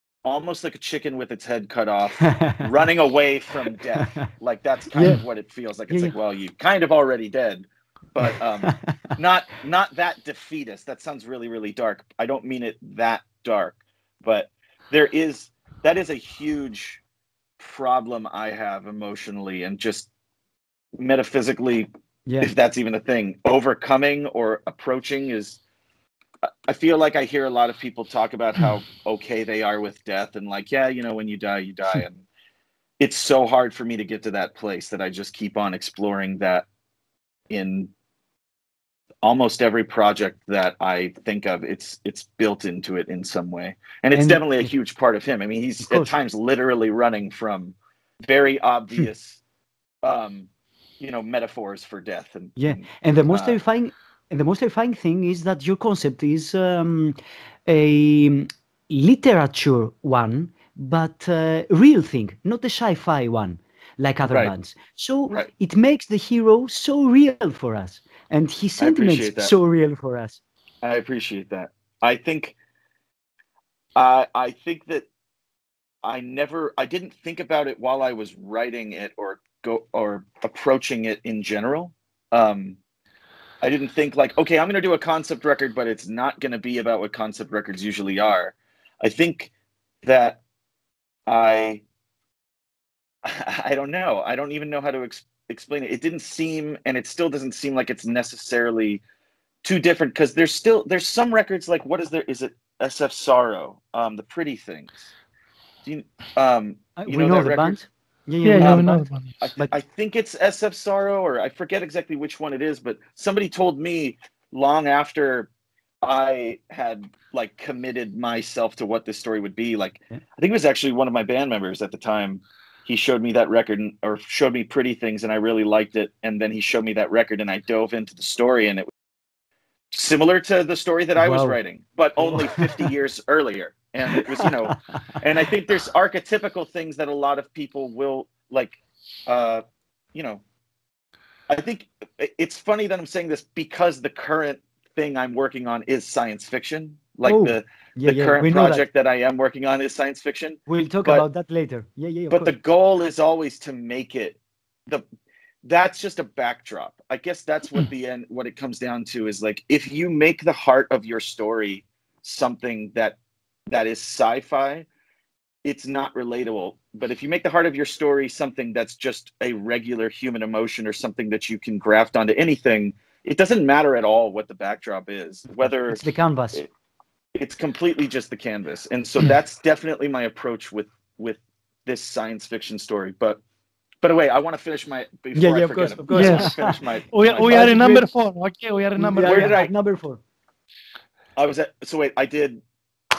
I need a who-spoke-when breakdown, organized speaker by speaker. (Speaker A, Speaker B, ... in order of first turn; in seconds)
Speaker A: 0.2-17.0, 17.6-20.1, 20.9-21.9, 22.4-25.6, 26.7-32.2, 33.0-36.7, 37.5-37.9, 39.2-47.7, 48.3-49.4, 50.0-50.5, 51.0-53.6, 68.8-69.5, 70.8-72.5, 74.0-75.1, 76.0-82.8, 83.6-89.5, 90.0-90.4, 91.3-91.8, 93.2-99.0, 99.6-105.1, 105.8-107.8, 108.6-115.5, 116.0-128.9, 129.9-139.6, 140.1-140.4, 141.5-151.2, 152.3-155.0, 155.6-163.2, 163.7-164.8, 165.6-176.0, 177.3-183.4, 184.0-187.7, 189.2-189.7, 191.3-192.6
Speaker B: 2.2-2.7, 4.0-4.3, 4.9-5.2, 8.2-9.1, 22.2-22.5, 44.1-44.7, 45.8-46.1, 52.6-70.4, 107.0-109.0, 131.2-131.6, 132.2-132.9, 134.1-135.1, 147.2-148.8, 150.7-152.5, 175.9-176.6, 185.3-186.8, 187.4-188.1, 189.0-190.2
Speaker C: 108.4-109.3, 186.1-186.5, 187.1-189.6